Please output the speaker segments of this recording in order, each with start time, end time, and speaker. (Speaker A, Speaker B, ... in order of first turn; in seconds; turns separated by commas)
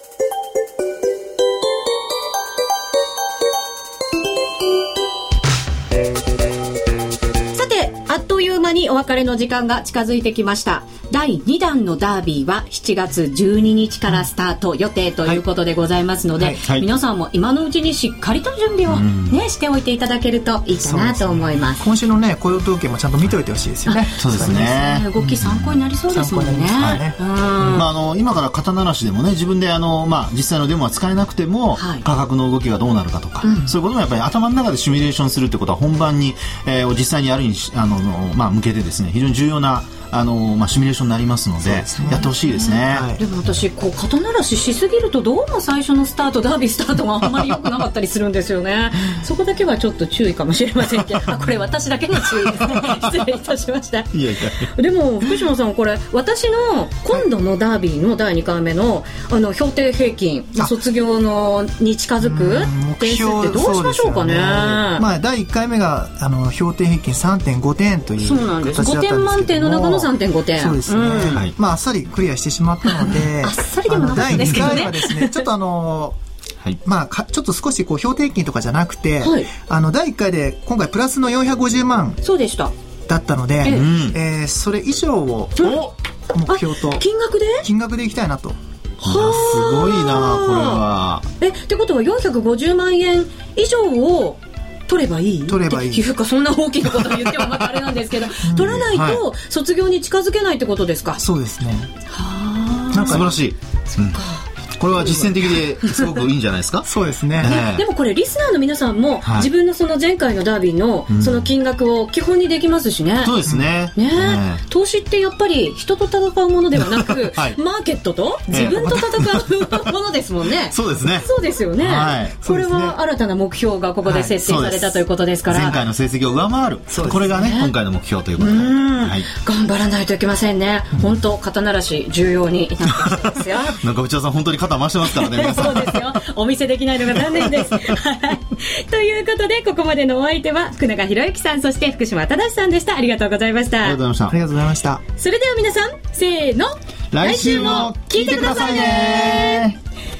Speaker A: 7.5-21.8, Speaker B: 16.6-16.9, Speaker B: 18.9-19.4, Speaker C: 20.8-25.5, Speaker A: 23.9-27.9, Speaker B: 24.2-25.6, Speaker C: 26.1-27.8, Speaker B: 27.7-43.1, Speaker A: 31.8-32.0, Speaker A: 33.4-33.7, Speaker A: 41.9-65.1, Speaker C: 41.9-42.3, Speaker C: 42.9-43.2, Speaker B: 54.1-54.7, Speaker C: 62.2-76.2, Speaker A: 68.2-71.4, Speaker A: 72.8-75.5, Speaker B: 74.2-74.8, Speaker C: 76.8-82.2, Speaker A: 79.2-79.5, Speaker A: 82.2-82.7, Speaker C: 83.1-85.7, Speaker A: 83.6-83.9, Speaker B: 83.7-84.2, Speaker B: 85.6-85.9, Speaker C: 86.3-87.1, Speaker A: 86.5-87.7, Speaker C: 87.6-88.6, Speaker B: 89.0-91.3, Speaker A: 89.0-90.8, Speaker A: 91.4-101.2, Speaker C: 95.5-96.1, Speaker C: 98.4-98.9, Speaker B: 98.8-99.2, Speaker C: 101.2-101.9, Speaker A: 102.1-103.3, Speaker C: 102.9-103.3, Speaker B: 103.0-104.2, Speaker A: 104.2-104.4, Speaker B: 104.8-107.8, Speaker C: 105.0-105.3, Speaker C: 106.8-107.6, Speaker A: 107.4-113.3, Speaker B: 109.2-109.5, Speaker B: 111.1-111.5, Speaker B: 113.2-114.6, Speaker A: 114.0-125.8, Speaker B: 117.2-117.6, Speaker B: 118.5-119.5, Speaker B: 120.7-121.3, Speaker B: 121.8-122.4, Speaker C: 122.4-123.0, Speaker C: 124.0-124.3, Speaker B: 124.4-129.3, Speaker C: 126.9-127.3, Speaker A: 127.0-127.7, Speaker A: 128.4-133.8, Speaker B: 133.7-136.1, Speaker A: 135.1-144.0, Speaker B: 137.4-137.8, Speaker B: 143.8-144.4, Speaker C: 144.3-145.0, Speaker A: 145.2-149.7, Speaker B: 147.1-149.8